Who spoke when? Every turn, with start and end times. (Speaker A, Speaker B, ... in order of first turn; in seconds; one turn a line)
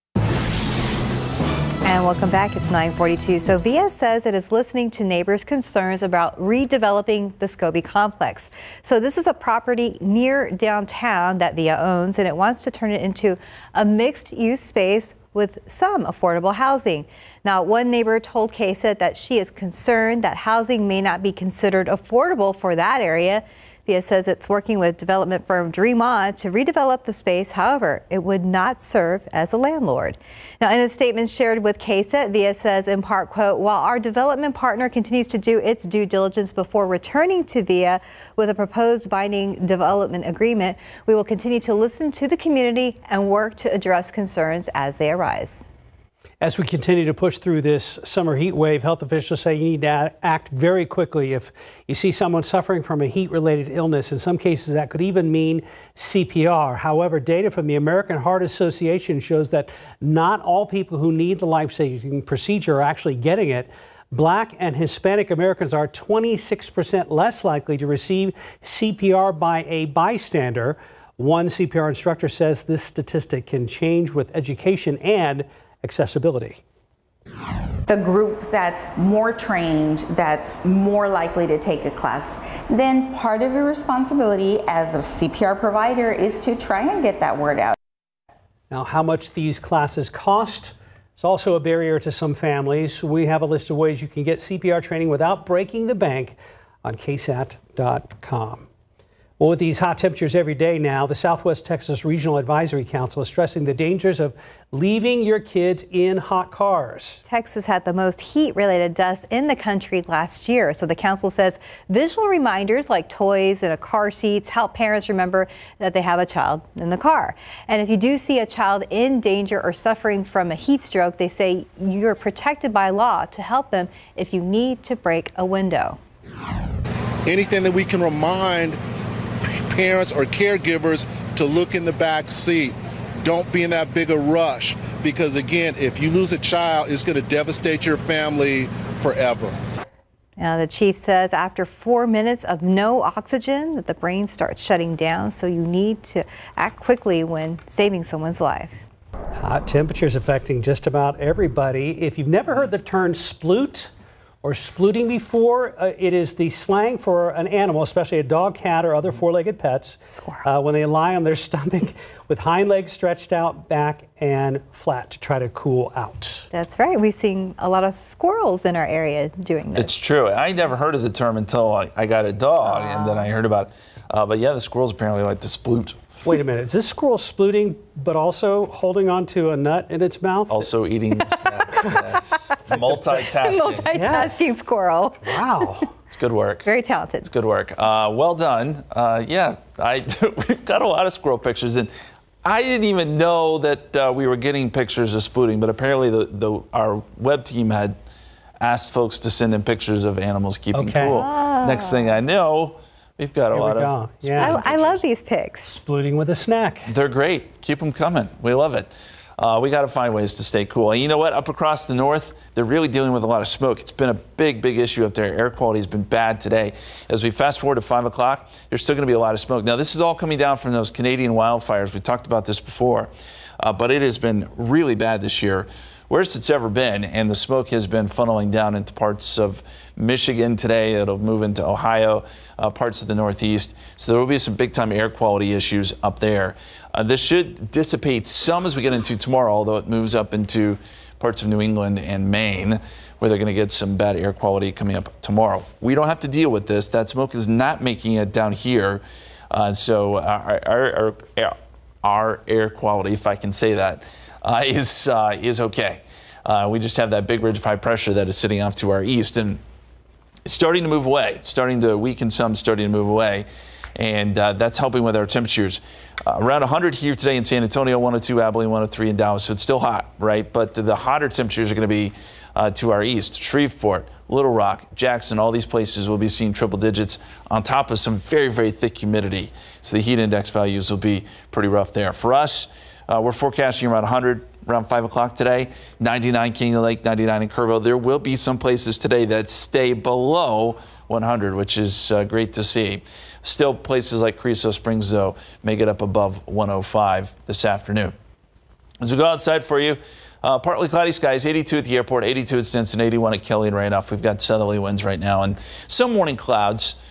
Speaker A: 1.8-45.6
Speaker B: 46.4-76.6
Speaker C: 77.9-87.8
Speaker B: 88.7-98.7
Speaker B: 99.4-107.2
Speaker A: 107.3-126.0
Speaker D: 127.3-128.8
Speaker D: 129.7-132.7
Speaker D: 133.2-139.5
Speaker A: 140.4-148.8
Speaker B: 149.4-153.9
Speaker B: 154.4-166.5
Speaker A: 160.1-160.5
Speaker A: 166.5-169.9
Speaker E: 169.8-176.0
Speaker A: 172.6-173.3
Speaker B: 176.2-180.7
Speaker E: 180.5-183.9
Speaker A: 183.2-185.7
Speaker B: 183.9-184.5
Speaker B: 185.2-185.9
Speaker E: 186.1-186.7
Speaker A: 186.7-187.3
Speaker E: 187.2-191.9
Speaker E: 192.4-198.0
Speaker E: 198.6-205.0
Speaker B: 200.7-201.2
Speaker A: 201.1-202.2
Speaker B: 203.5-204.7
Speaker A: 204.4-205.8
Speaker B: 205.7-206.9
Speaker E: 206.9-259.6
Speaker E: 260.4-298.1
Speaker E: 299.0-307.0